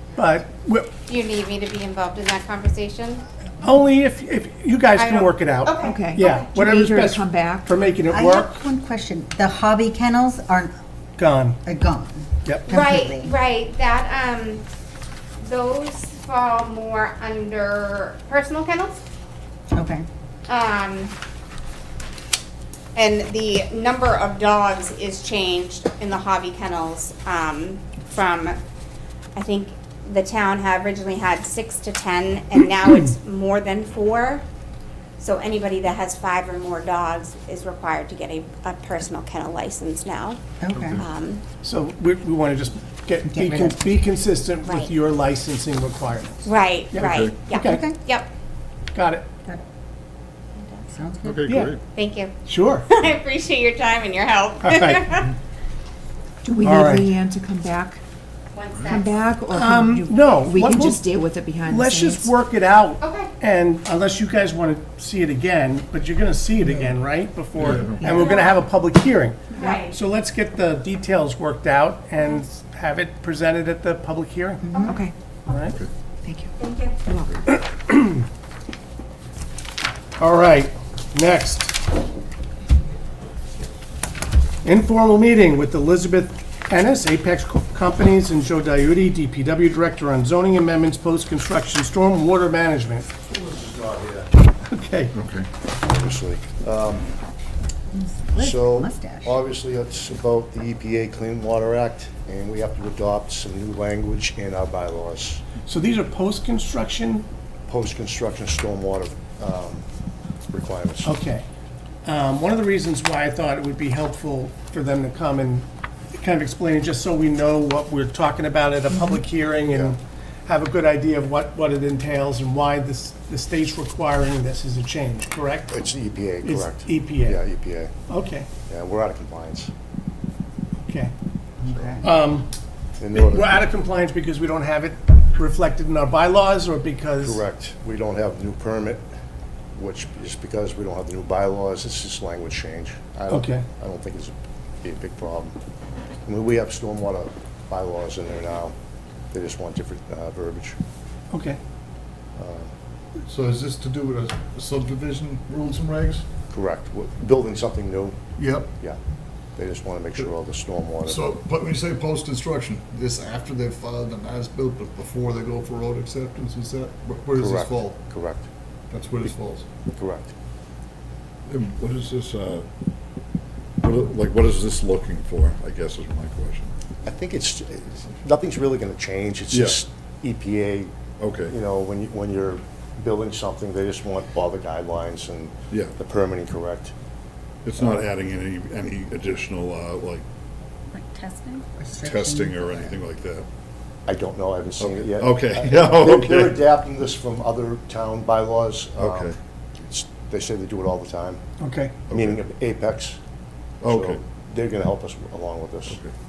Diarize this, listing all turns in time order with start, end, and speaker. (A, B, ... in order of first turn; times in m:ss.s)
0:00.2-0:00.9 A
0:01.1-0:03.2 B
0:03.6-0:08.6 A
0:05.0-0:06.4 B
0:05.8-0:07.7 C
0:08.1-0:10.7 D
0:11.2-0:11.6 A
0:11.6-0:13.3 D
0:12.7-0:14.6 B
0:15.4-0:19.0 B
0:19.7-0:20.0 D
0:20.5-0:21.1 B
0:22.9-0:28.6 B
0:29.3-0:34.4 B
0:35.2-0:41.4 B
0:40.6-0:41.0 D
0:41.6-0:47.8 A
0:43.3-0:43.8 D
0:44.6-0:44.9 B
0:46.4-0:48.3 B
0:47.0-0:47.4 E
0:47.5-0:48.0 D
0:48.9-0:49.3 A
0:50.5-0:50.9 B
0:50.9-0:51.4 D
0:51.2-0:51.8 E
0:51.5-0:51.7 A
0:52.0-0:52.3 B
0:52.4-0:52.9 A
0:52.9-0:55.3 B
0:54.6-0:55.1 A
0:56.4-0:58.0 C
0:56.6-0:57.1 A
0:58.5-0:59.1 B
0:58.8-1:02.3 C
0:59.5-1:01.0 A
1:01.6-1:14.7 A
1:03.0-1:03.3 B
1:07.7-1:08.2 E
1:08.0-1:08.6 B
1:09.5-1:09.9 B
1:14.7-1:15.1 C
1:14.7-1:15.0 B
1:15.5-1:15.8 A
1:16.2-1:16.5 C
1:16.6-1:16.9 B
1:17.1-1:17.4 C
1:17.4-1:18.2 A
1:20.2-1:21.8 A
1:24.6-1:33.1 A
1:33.2-1:34.3 F
1:34.7-1:35.1 A
1:35.1-1:35.5 E
1:35.8-1:37.1 F
1:37.9-1:39.4 D
1:38.3-1:45.4 F
1:45.6-1:47.2 A
1:47.7-1:49.8 F
1:50.5-1:51.2 F
1:51.0-1:51.4 A
1:52.0-2:05.8 A
1:59.7-2:00.0 F
2:05.7-2:07.9 F
2:06.4-2:07.4 A
2:08.1-2:08.5 A
2:08.7-2:09.7 F
2:10.8-2:11.1 A
2:11.6-2:12.0 D
2:12.0-2:12.5 A
2:13.0-2:13.6 F
2:13.1-2:17.4 A
2:17.2-2:19.0 F
2:19.7-2:25.6 F
2:23.3-2:23.6 A
2:26.2-2:28.7 F
2:29.3-2:30.8 F
2:31.3-2:31.6 A
2:32.4-2:32.7 F
2:33.3-2:36.2 G
2:36.5-2:38.2 F
2:38.4-2:38.7 G
2:39.6-2:41.3 F
2:41.0-2:48.0 G
2:47.4-2:48.4 F
2:48.9-2:49.7 G
2:49.9-2:50.3 F
2:51.5-2:52.6 E
2:53.8-2:56.7 E
2:57.0-3:00.9 F
2:59.5-2:59.8 E
3:01.2-3:01.5 E
3:01.5-3:06.9 F
3:07.6-3:10.2 E
3:11.0-3:11.6 B
3:11.8-3:12.9 D
3:12.0-3:13.4 E
3:14.1-3:21.4 F
3:14.8-3:16.6 E
3:19.0-3:19.3 E
3:21.6-3:21.9 A
3:22.1-3:22.4 E
3:22.1-3:23.2 F
3:23.8-3:24.2 E
3:23.8-3:26.0 F